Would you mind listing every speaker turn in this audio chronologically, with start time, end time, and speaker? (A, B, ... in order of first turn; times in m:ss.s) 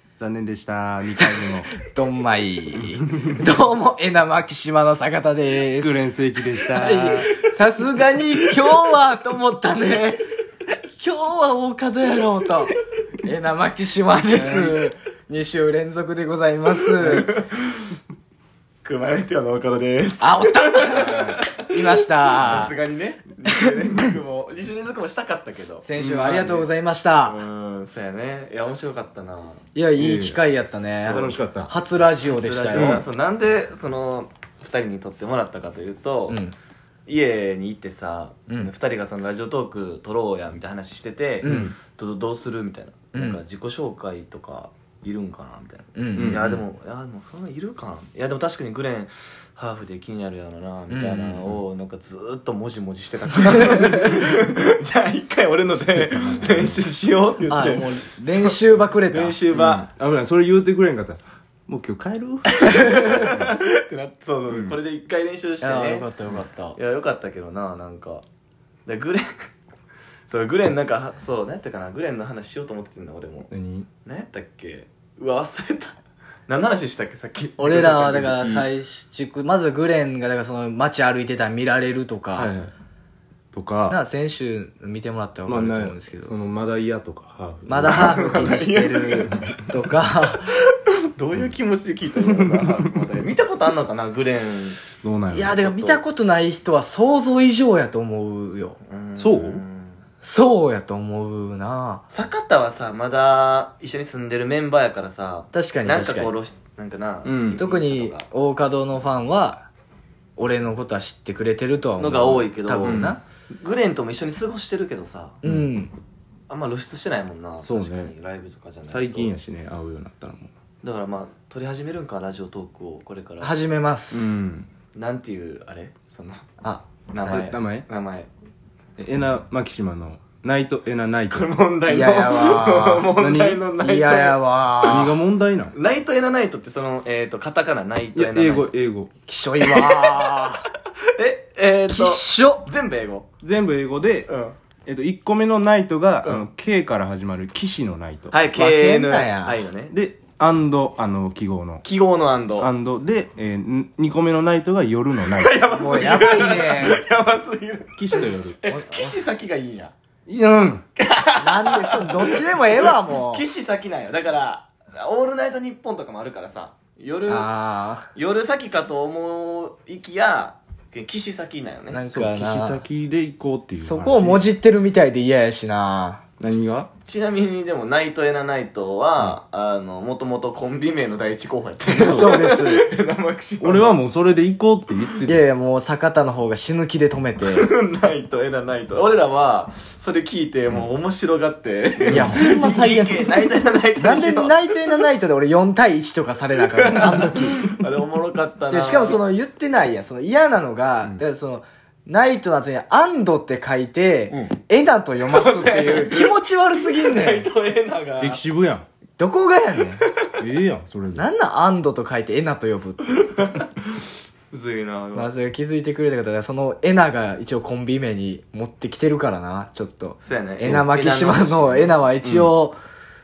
0:00.2-0:01.7 A
0:01.2-0:05.9 B
0:03.1-0:03.4 A
0:05.8-0:07.3 A
0:06.7-0:10.2 B
0:10.9-0:17.3 B
0:14.3-0:14.9 C
0:16.9-0:17.9 C
0:18.8-0:26.7 C
0:20.2-0:22.7 B
0:20.9-0:21.4 A
0:25.8-0:27.4 B
0:27.2-0:29.6 C
0:29.7-0:33.0 B
0:30.0-0:30.4 A
0:31.0-0:31.7 A
0:32.2-0:36.4 C
0:32.8-0:33.0 A
0:36.3-0:36.5 B
0:37.1-0:59.9 C
0:41.4-0:41.7 B
0:41.4-0:41.7 A
0:43.1-0:43.4 B
0:46.0-0:46.6 B
0:46.2-0:46.6 A
0:50.9-0:51.4 B
0:53.8-0:54.0 B
0:55.8-0:56.8 A
0:57.5-0:59.4 B
0:59.5-1:03.5 A
1:02.5-1:06.1 C
1:02.8-1:03.1 B
1:04.5-1:04.8 A
1:05.6-1:06.8 B
1:06.7-1:08.2 C
1:08.8-1:09.2 C
1:10.3-1:13.5 C
1:13.5-1:13.9 A
1:14.0-1:16.0 C
1:16.5-1:18.4 C
1:17.6-1:22.5 B
1:17.7-1:18.7 A
1:22.4-1:22.7 A
1:23.5-1:24.0 A
1:23.9-1:26.3 B
1:25.5-1:28.5 A
1:27.6-1:30.5 B
1:27.8-1:29.4 C
1:30.3-1:34.8 C
1:32.2-1:32.8 A
1:35.0-1:35.9 A
1:35.3-1:38.8 B
1:38.8-1:40.0 C
1:39.2-1:39.6 A
1:40.2-1:42.0 B
1:42.1-1:48.2 C
1:45.5-1:46.3 B
1:47.2-1:47.6 A
1:47.6-1:49.7 B
1:50.4-1:53.2 B
1:52.0-1:55.4 C
1:52.8-1:53.2 A
1:55.4-1:55.9 B
1:56.5-1:59.3 C
1:57.6-1:58.1 A
1:58.8-2:00.5 A
2:00.8-2:03.5 C
2:03.4-2:04.3 B
2:04.1-2:06.5 C
2:07.1-2:08.3 C
2:07.2-2:07.8 A
2:09.0-2:11.5 A
2:11.3-2:14.9 C
2:11.9-2:13.1 B
2:13.1-2:13.6 A
2:13.8-2:15.1 B
2:14.8-2:15.7 A
2:15.7-2:18.7 C
2:18.1-2:19.1 A
2:19.3-2:20.6 B
2:19.6-2:20.6 C
2:21.2-2:23.3 C
2:21.9-2:22.7 B
2:23.4-2:24.3 A
2:24.3-2:24.6 C
2:24.8-2:28.3 A
2:28.3-2:29.9 C
2:28.5-2:29.6 B
2:29.9-2:31.8 A
2:31.8-2:32.7 C
2:32.6-2:35.6 A
2:35.2-2:39.9 C
2:35.7-2:37.0 B
2:38.0-2:38.6 A
2:38.7-2:39.2 B
2:40.3-2:40.8 A
2:41.0-2:47.5 C
2:41.4-2:43.4 B
2:47.3-2:48.1 B
2:48.1-2:52.0 C
2:51.9-2:52.8 B
2:52.1-2:54.5 A
2:53.8-2:56.2 B
2:56.4-2:56.9 A
2:57.0-3:04.0 C
3:01.9-3:02.8 B
3:02.0-3:02.4 A
3:03.6-3:05.4 A
3:05.2-3:07.7 B
3:07.4-3:15.1 C
3:12.0-3:12.4 A
3:12.1-3:17.6 B
3:16.6-3:19.2 C
3:18.7-3:27.5 B
3:25.2-3:28.4 C
3:28.2-3:28.8 A
3:29.2-3:30.0 B
3:30.4-3:31.3 A
3:31.1-3:33.1 B
3:33.1-3:34.0 C
3:34.5-3:35.3 C
3:35.1-3:42.8 B
3:40.2-3:42.0 C
3:42.2-3:42.5 A